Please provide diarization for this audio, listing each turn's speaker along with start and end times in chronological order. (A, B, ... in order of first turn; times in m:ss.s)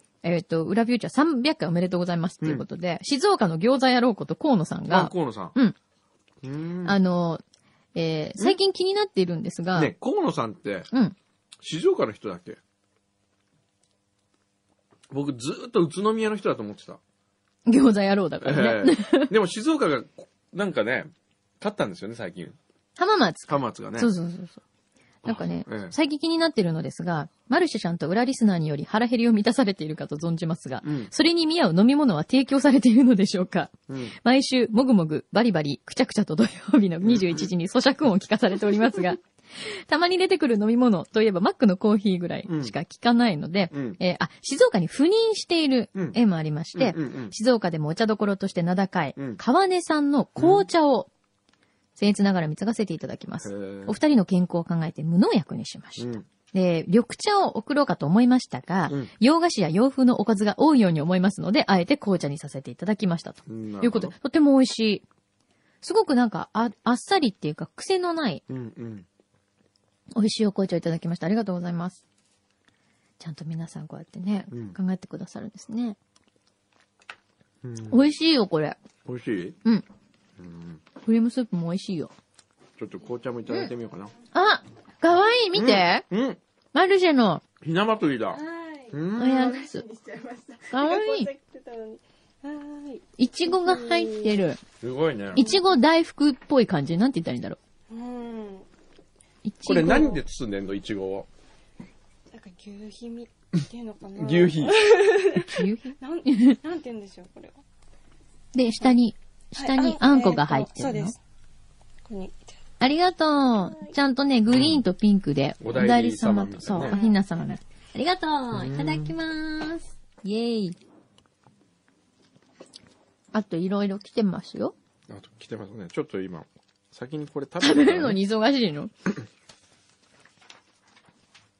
0:00.2-0:05.8 A
0:04.9-0:05.6 B
0:06.4-0:07.0 B
0:06.8-0:07.4 A
0:08.0-0:09.9 A
0:09.8-0:10.9 B
0:11.6-0:12.6 B
0:15.1-0:17.0 B
0:17.7-0:19.3 A
0:18.4-0:22.6 B
0:23.0-0:24.6 A
0:23.5-0:24.1 B
0:25.2-0:26.0 B
0:25.2-0:51.1 A
0:30.8-0:31.1 B
0:33.9-0:34.2 B
0:37.0-0:37.5 B
0:42.5-0:42.8 B
0:43.7-0:44.0 B
0:45.9-0:46.2 B
0:46.7-0:47.4 B
0:49.2-0:49.4 B
0:50.4-0:50.6 B
0:52.0-1:05.0 A
0:53.4-0:54.0 B
0:56.0-0:56.3 B
1:03.5-1:04.1 B
1:05.8-1:08.4 A
1:08.5-1:09.1 B
1:10.1-1:12.0 A
1:13.2-1:16.0 A
1:14.5-1:14.8 B
1:17.6-1:18.0 B
1:17.9-1:18.8 A
1:19.0-1:19.6 B
1:20.4-1:20.8 B
1:21.0-1:22.1 A
1:22.8-1:24.1 B
1:24.3-1:26.1 A
1:25.5-1:26.4 B
1:26.7-1:27.4 A
1:27.6-1:28.4 B
1:28.3-1:34.5 C
1:28.9-1:29.4 B
1:29.2-1:29.8 A
1:30.7-1:31.3 A
1:33.2-1:34.6 A
1:34.8-1:35.4 B
1:35.3-1:37.6 A
1:35.4-1:35.6 C
1:37.9-1:38.7 C
1:39.4-1:40.2 A
1:39.6-1:41.3 B
1:39.9-1:40.2 C
1:42.3-1:47.6 C
1:44.2-1:45.1 B
1:45.4-1:46.6 A
1:48.5-1:51.1 A
1:49.6-1:51.2 C
1:52.1-1:52.6 C
1:52.8-2:00.8 A
1:54.5-1:54.8 B
1:55.6-1:57.0 B
1:56.8-1:57.2 C
1:58.5-1:59.2 B
2:03.3-2:04.7 A
2:05.1-2:08.2 B
2:07.6-2:08.9 A